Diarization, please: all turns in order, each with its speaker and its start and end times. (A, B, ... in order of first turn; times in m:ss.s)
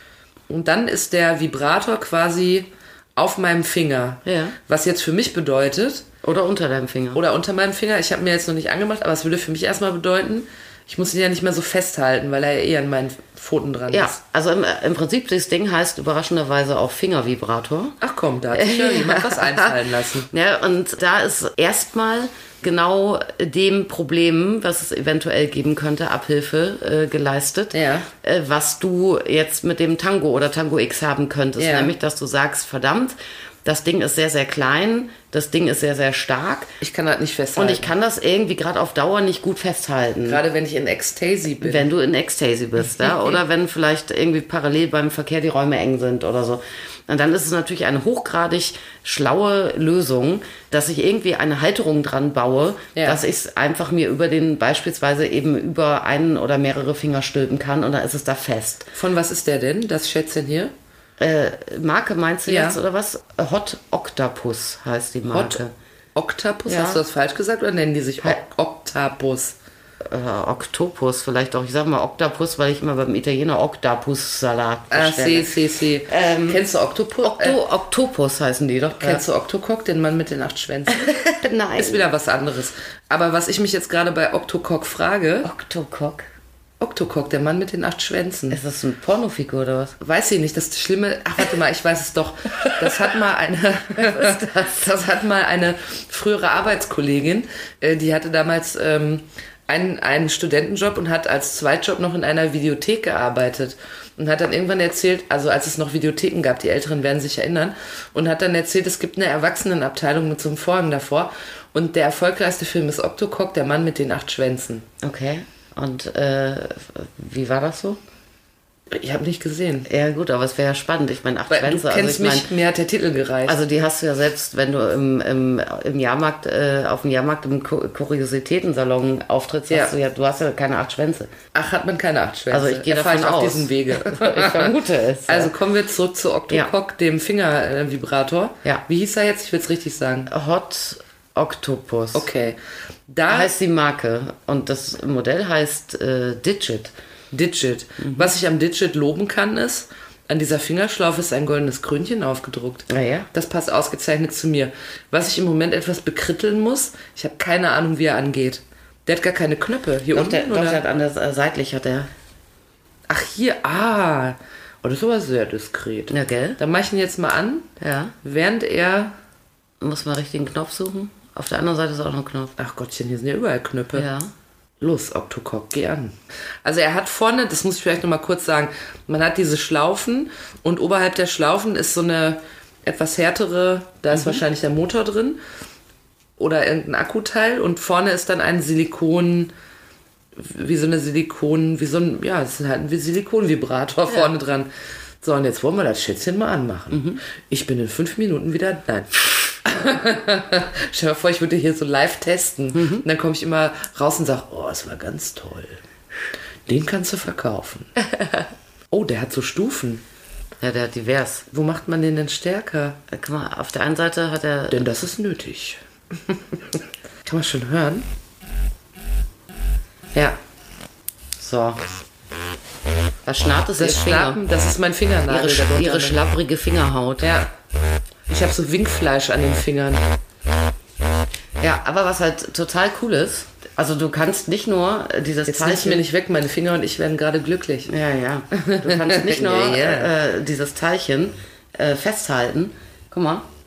0:00.5-0:06.0 A
0:04.2-0:04.6 B
0:06.2-0:07.2 B
0:07.1-0:14.1 A
0:13.9-0:18.0 B
0:18.0-0:20.3 A
0:18.5-0:19.7 B
0:20.3-0:36.7 B
0:27.7-0:28.1 A
0:31.6-0:31.9 A
0:36.8-0:37.9 A
0:37.5-0:40.4 B
0:40.2-0:41.9 A
0:41.6-0:58.9 B
0:43.0-0:43.4 A
0:53.0-0:53.2 A
0:58.9-1:00.7 A
1:01.2-1:05.7 B
1:02.4-1:02.8 A
1:05.3-1:05.6 A
1:06.1-1:09.6 A
1:06.7-1:07.0 B
1:10.1-1:15.6 B
1:14.9-1:17.6 A
1:16.1-1:16.6 B
1:17.2-1:19.2 B
1:19.0-1:21.1 A
1:20.9-1:22.0 B
1:21.8-1:25.5 A
1:25.4-1:26.2 B
1:26.8-1:28.6 A
1:28.5-1:30.0 B
1:30.0-1:54.8 A
1:34.0-1:34.8 B
1:55.0-1:58.0 B
1:58.9-1:59.9 A
1:59.9-2:02.5 B
2:01.5-2:03.6 A
2:03.4-2:11.3 B
2:11.5-2:14.7 A
2:12.5-2:15.5 B
2:15.3-2:20.3 A
2:20.3-2:22.3 B
2:22.1-2:23.5 A
2:23.3-2:26.9 B
2:27.3-2:40.8 A
2:28.0-2:28.3 B
2:32.9-2:33.3 B
2:40.1-2:42.1 B
2:43.1-2:47.7 A
2:46.1-2:46.6 B
2:47.8-2:48.1 B
2:48.2-2:49.2 A
2:49.8-2:52.5 B
2:52.6-2:54.1 A
2:53.9-2:54.3 B
2:54.8-3:05.4 A
3:04.1-3:04.4 B
3:06.4-3:09.5 A
3:10.4-3:14.7 A
3:15.2-3:25.8 A
3:16.9-3:17.2 B
3:22.7-3:23.0 B
3:26.6-3:27.9 A
3:28.9-3:30.0 A
3:30.6-3:31.4 B
3:31.5-3:33.0 A
3:33.1-3:34.8 B
3:34.7-3:38.1 A
3:41.4-3:41.8 B
3:43.2-3:44.4 B
3:43.8-3:46.2 A
3:45.3-3:47.3 B
3:47.2-3:47.5 A
3:48.3-3:50.0 A
3:51.6-3:56.0 B
3:55.4-3:57.9 A
3:57.9-4:03.4 B
3:58.8-4:00.1 A